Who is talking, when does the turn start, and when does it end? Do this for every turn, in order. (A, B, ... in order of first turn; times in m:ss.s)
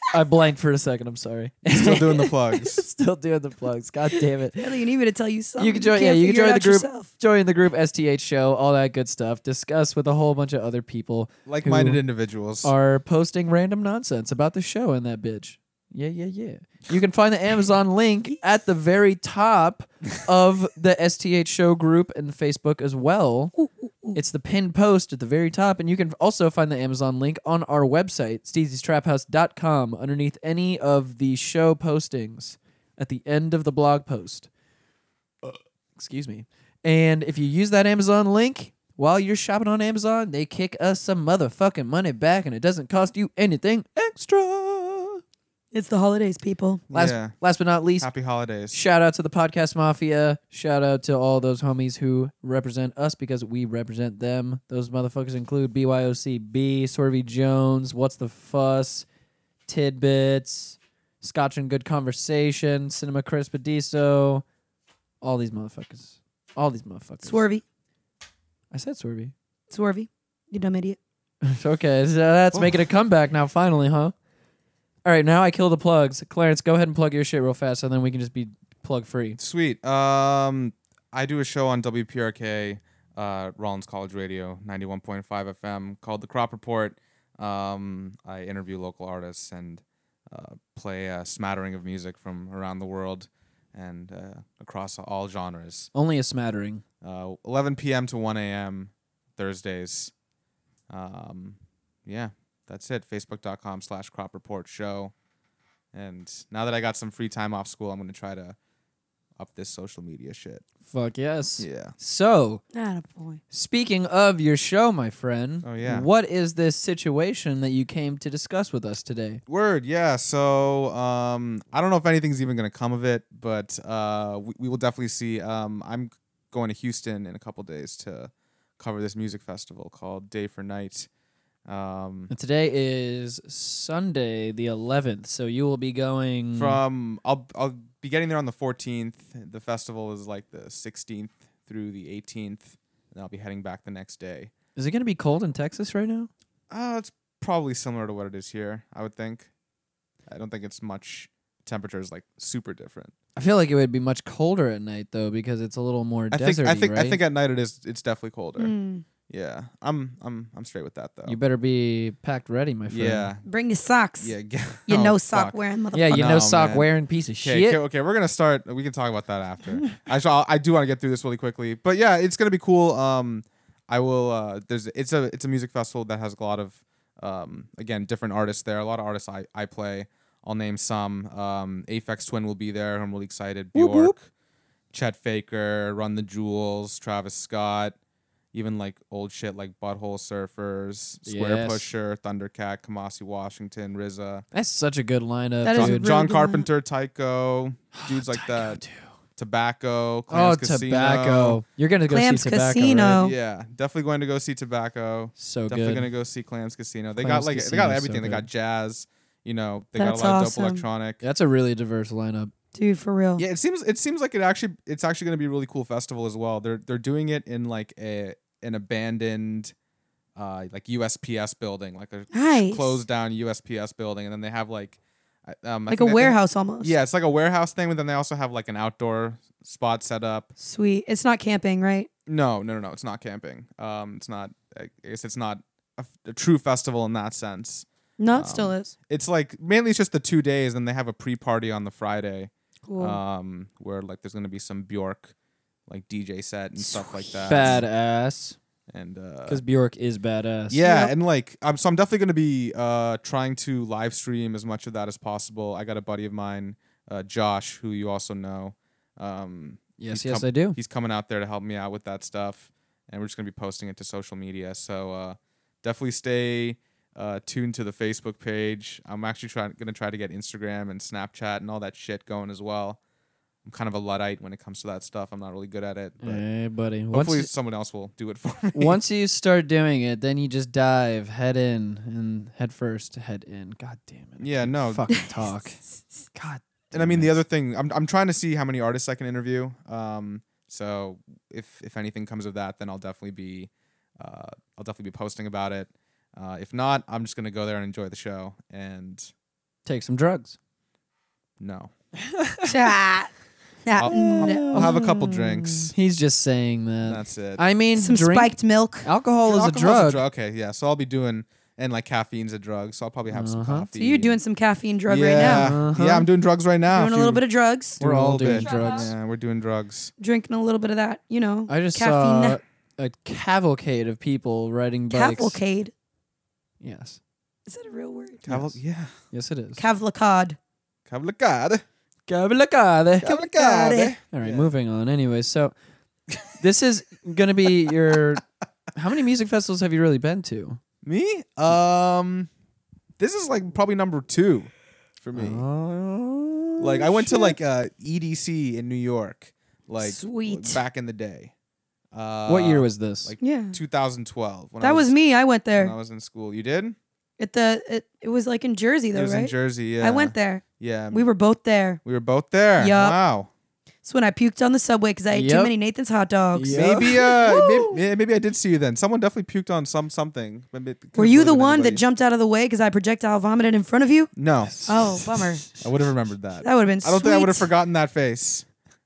0:00.1-0:04.7 A
0:01.7-0:02.8 B
0:04.6-0:07.1 C
0:05.6-0:12.0 A
0:11.4-0:12.7 B
0:12.6-0:23.6 A
0:23.6-0:24.2 C
0:24.1-0:34.5 A
0:35.4-0:45.2 A
0:45.7-0:46.8 C
0:46.9-0:47.4 B
0:46.9-0:48.1 A
0:48.0-0:48.8 B
0:48.7-0:59.0 A
0:59.7-1:04.4 A
1:05.2-1:07.4 A
1:07.2-1:07.6 C
1:08.7-1:09.3 A
1:09.7-1:11.0 C
1:11.4-1:14.1 A
1:12.5-1:12.8 B
1:15.0-1:19.4 A
1:19.4-1:35.9 B
1:35.9-1:36.8 A
1:37.0-1:40.1 B
1:40.9-1:45.1 B
1:45.9-1:48.6 B
1:49.4-1:50.6 B
1:50.9-1:52.6 A
1:51.6-1:51.9 B
1:52.7-1:53.4 C
1:53.5-1:59.4 A
1:55.6-1:56.1 B
1:59.5-2:11.1 B
2:11.6-2:12.3 B
2:12.3-2:16.8 A
2:16.5-2:24.5 B
2:24.8-2:26.3 A
2:26.7-2:29.5 B
2:30.3-2:33.1 B
2:33.4-2:37.2 A
2:36.3-2:38.7 B
2:38.6-2:39.0 C
2:39.3-2:41.4 B
2:41.2-2:43.3 A
2:42.9-2:43.4 B
2:43.4-2:44.3 C
2:44.2-2:45.6 B
2:44.9-2:46.2 C
2:45.9-2:47.8 A
2:46.1-2:46.9 B
2:47.4-3:04.3 B
3:03.7-3:04.1 A
3:04.9-3:08.0 B
3:08.5-3:14.4 B
3:11.2-3:11.9 A
3:14.5-3:16.1 A
3:15.6-3:16.7 C
3:15.7-3:18.8 B
3:17.9-3:19.1 A
3:19.4-3:21.6 B
3:20.3-3:23.2 A
3:22.1-3:23.3 C
3:23.2-3:31.2 B
3:25.4-3:26.0 A
3:27.2-3:28.5 A
3:30.0-3:30.8 C
3:31.2-3:32.5 A
3:32.7-3:33.4 C
3:33.4-3:39.7 B
3:40.4-3:50.5 B
3:42.3-3:43.0 C
3:45.9-3:46.9 C
3:50.6-3:52.1 C
3:52.3-4:05.3 B
3:58.2-3:58.9 C
4:02.9-4:03.2 C
4:05.9-4:07.8 B
4:06.8-4:07.8 C
4:07.4-4:08.6 A
4:08.9-4:09.6 B
4:09.5-4:10.8 A
4:10.7-4:33.0 B
4:10.8-4:11.1 C
4:20.0-4:20.8 A
4:33.6-4:36.4 B
4:36.2-4:37.5 A
4:37.1-4:39.0 B
4:38.7-4:45.8 A
4:44.4-4:45.1 B
4:46.3-4:47.4 A
4:46.9-4:59.3 B
4:59.8-5:00.6 A
5:01.6-5:01.9 B
5:02.4-5:02.7 A
5:02.6-5:03.3 C
5:03.8-5:04.9 C
5:04.0-5:05.9 B
5:04.1-5:10.2 A
5:07.0-5:07.6 B
5:08.0-5:09.1 C
5:09.4-5:14.4 B
5:13.3-5:13.9 A
5:13.9-5:15.7 C
5:15.1-5:17.4 B
5:15.4-5:16.3 A
5:16.9-5:18.0 C
5:18.0-5:20.1 B
5:18.0-5:19.1 A
5:18.6-5:18.9 C
5:20.2-5:22.6 C
5:21.7-5:25.6 A
5:25.1-5:25.9 C
5:26.8-5:27.2 A
5:27.7-5:28.4 C
5:28.4-5:29.1 B
5:28.5-5:28.8 A
5:29.3-5:29.8 A
5:29.8-5:30.6 C
5:31.1-5:31.8 B
5:32.3-5:33.3 A
5:33.2-5:34.7 B
5:33.3-5:34.1 C
5:34.3-5:35.7 A
5:36.6-5:40.8 A
5:41.0-5:42.5 B
5:43.2-5:45.6 B
5:45.3-5:47.5 A
5:46.8-5:51.5 B
5:50.0-5:50.8 C
5:52.1-5:55.2 B
5:52.5-5:53.3 A
5:53.4-5:53.8 C
5:54.8-5:55.9 C
5:55.7-5:57.0 B
5:57.4-6:02.0 C
5:59.1-6:01.2 B
6:02.0-6:03.5 B
6:02.8-6:03.2 C
6:04.0-6:07.1 C
6:05.3-6:05.7 A
6:06.5-6:07.9 A
6:06.7-6:12.0 B
6:11.2-6:14.3 C
6:14.4-6:14.8 B
6:14.7-6:15.7 A
6:14.9-6:15.6 C
6:15.8-6:18.6 B
6:16.6-6:17.7 C